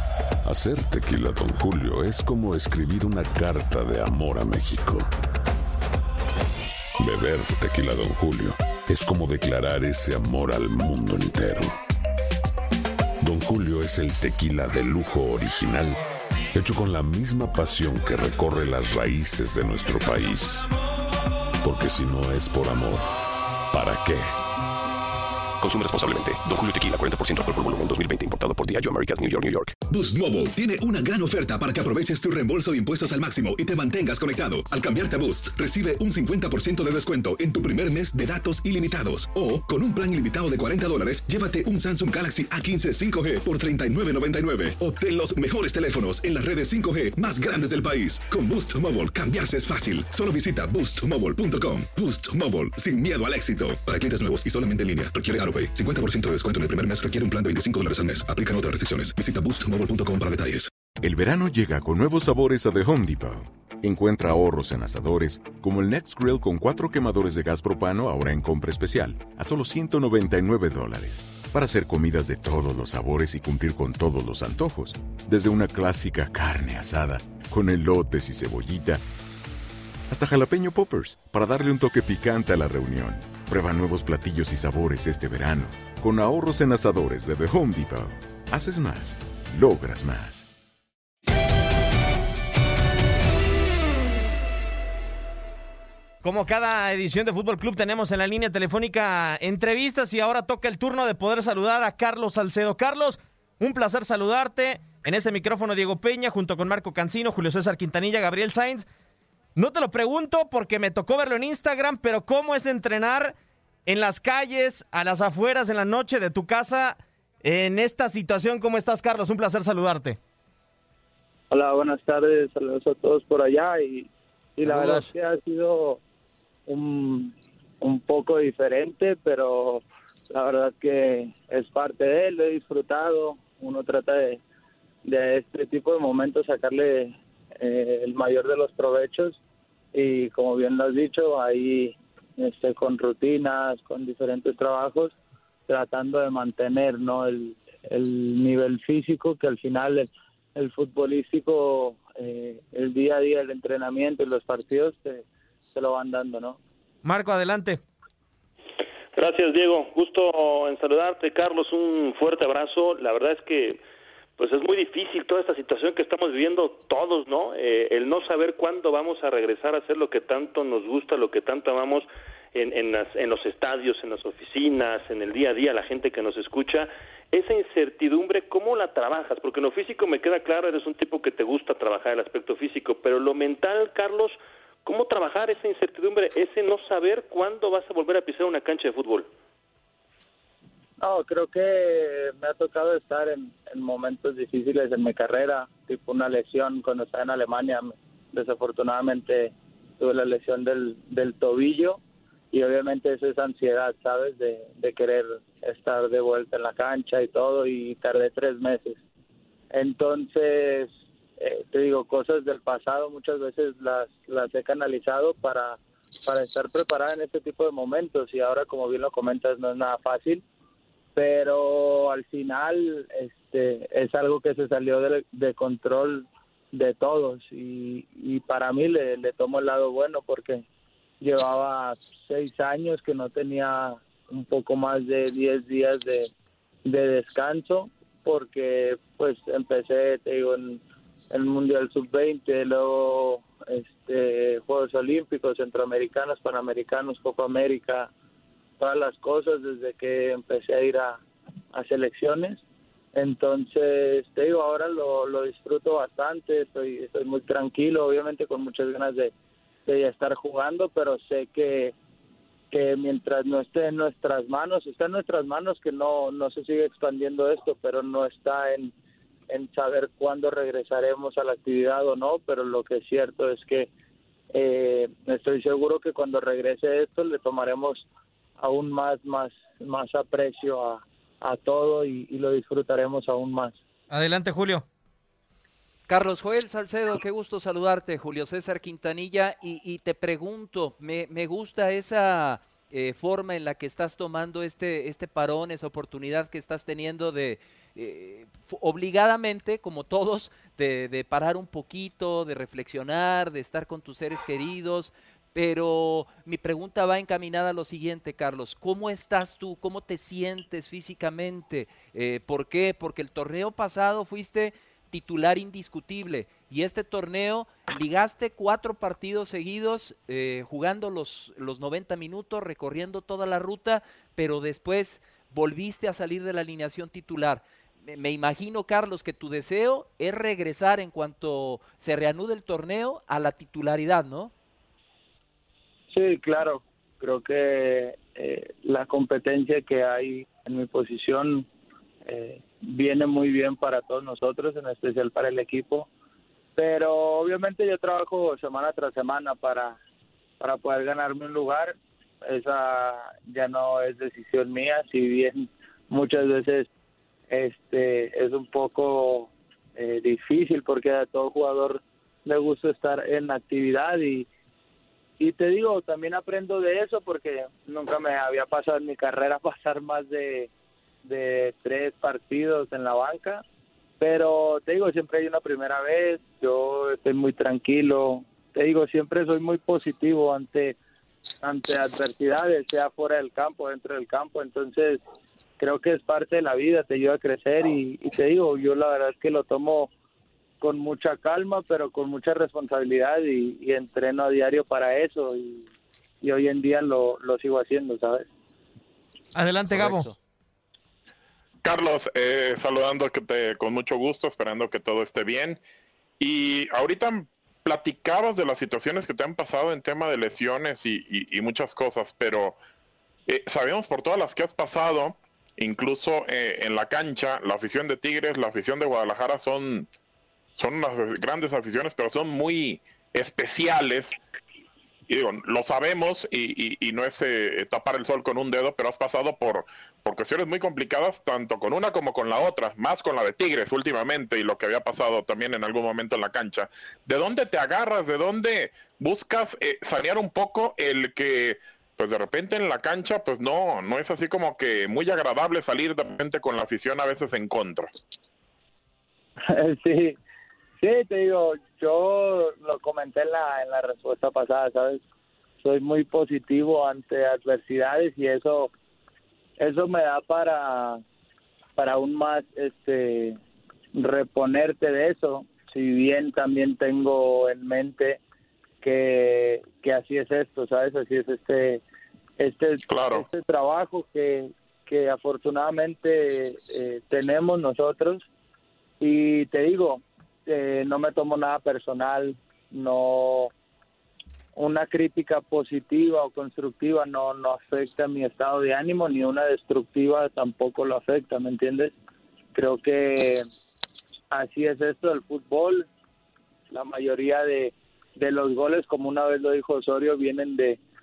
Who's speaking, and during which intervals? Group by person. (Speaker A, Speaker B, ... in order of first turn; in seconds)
Speaker A: 0.5-5.1, 7.0-11.7, 13.2-16.0, 16.6-20.7, 21.6-23.0, 23.7-24.3
Speaker B: 25.6-29.7
Speaker C: 29.9-60.7
Speaker D: 61.0-79.0, 80.1-90.5
Speaker E: 96.2-108.9, 109.6-113.3, 113.9-120.2, 157.0-157.8, 284.1-284.9, 399.6-400.3
Speaker F: 121.5-126.0, 126.7-134.4, 135.0-139.4, 139.9-145.2, 145.7-156.6, 191.0-202.0, 202.5-209.0, 209.7-220.4, 221.2-230.7, 231.2-236.3, 236.8-248.1, 248.8-251.2, 251.7-252.6, 253.1-259.3, 259.9-261.9, 262.7-268.9, 269.5-273.9, 274.5-278.1, 278.6-283.8, 336.1-341.7, 342.2-346.1, 346.8-350.0, 350.6-356.9, 357.5-364.5, 365.4-370.7, 371.2-373.6, 374.2-381.0, 381.6-385.2, 385.8-390.1, 390.8-395.9, 396.4-398.4, 449.7-450.4, 451.0-455.2, 455.8-458.9, 459.8-461.2, 462.0-463.6, 464.1-468.4, 469.0-472.0, 472.6-478.4, 479.2-483.7, 484.8-492.1, 492.7-493.6, 494.5-496.1, 496.9-501.0
Speaker G: 159.2-163.8, 164.4-189.3
Speaker H: 286.1-334.5, 399.9-400.3
Speaker I: 401.8-405.8, 406.4-412.8, 413.5-420.1, 420.8-424.4, 425.3-448.1, 473.1-473.4